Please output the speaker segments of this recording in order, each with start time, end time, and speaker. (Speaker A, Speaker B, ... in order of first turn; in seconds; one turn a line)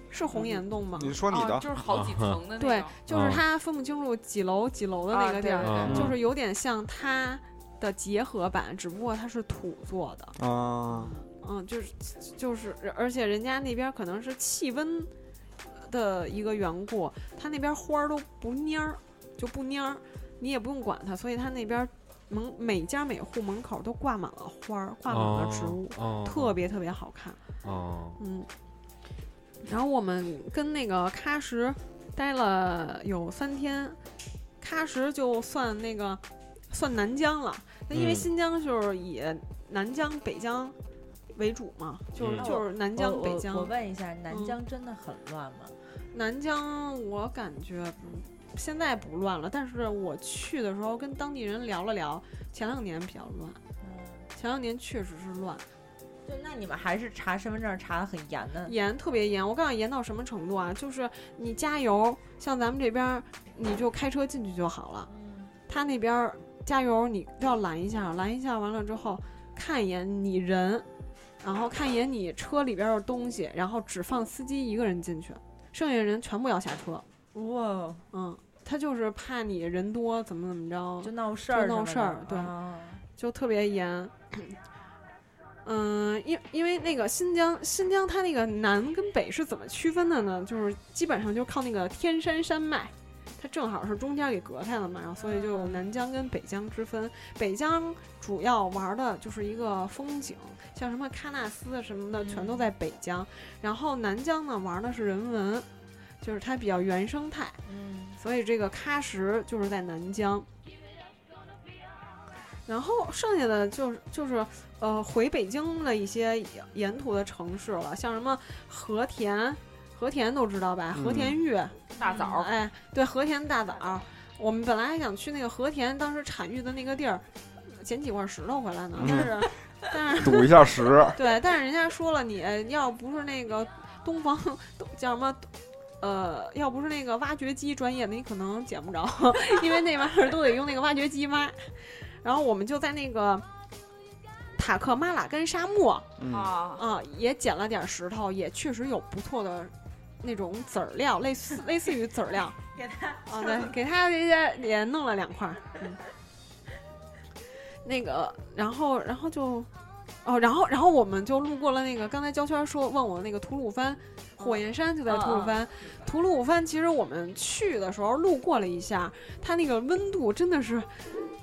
Speaker A: 0.1-1.2
Speaker B: 0.3-0.6
Speaker C: 0.9-1.7
Speaker B: 1.3-3.0
Speaker D: 1.9-2.4
Speaker A: 2.6-10.4
Speaker D: 3.1-3.4
Speaker B: 5.1-6.1
Speaker D: 5.6-6.2
Speaker C: 10.4-11.1
Speaker B: 10.9-11.3
Speaker A: 11.4-15.1
Speaker A: 15.7-27.4
Speaker D: 25.1-26.6
Speaker D: 27.6-28.2
Speaker A: 28.2-28.5
Speaker A: 29.6-34.0
Speaker A: 34.6-40.8
Speaker D: 37.9-38.3
Speaker A: 41.4-43.7
Speaker D: 42.2-42.5
Speaker E: 42.3-45.8
Speaker A: 44.3-44.6
Speaker A: 46.1-53.6
Speaker E: 53.8-54.3
Speaker A: 54.4-55.6
Speaker E: 56.2-58.8
Speaker A: 58.6-65.1
Speaker E: 65.1-65.5
Speaker A: 65.7-70.9
Speaker A: 71.4-77.0
Speaker E: 77.3-78.0
Speaker A: 78.1-82.5
Speaker E: 81.0-83.0
Speaker A: 83.2-84.6
Speaker A: 85.7-105.7
Speaker B: 95.3-95.8
Speaker A: 106.2-107.6
Speaker E: 107.7-108.2
Speaker A: 108.2-110.5
Speaker A: 112.7-143.5
Speaker C: 120.9-121.4
Speaker B: 122.0-122.5
Speaker C: 129.0-129.6
Speaker C: 130.2-131.2
Speaker A: 144.6-146.1
Speaker C: 146.2-146.6
Speaker B: 146.2-146.8
Speaker A: 146.7-152.6
Speaker E: 152.7-153.7
Speaker A: 153.2-156.0
Speaker A: 157.8-159.7
Speaker A: 160.2-171.0
Speaker B: 164.4-166.1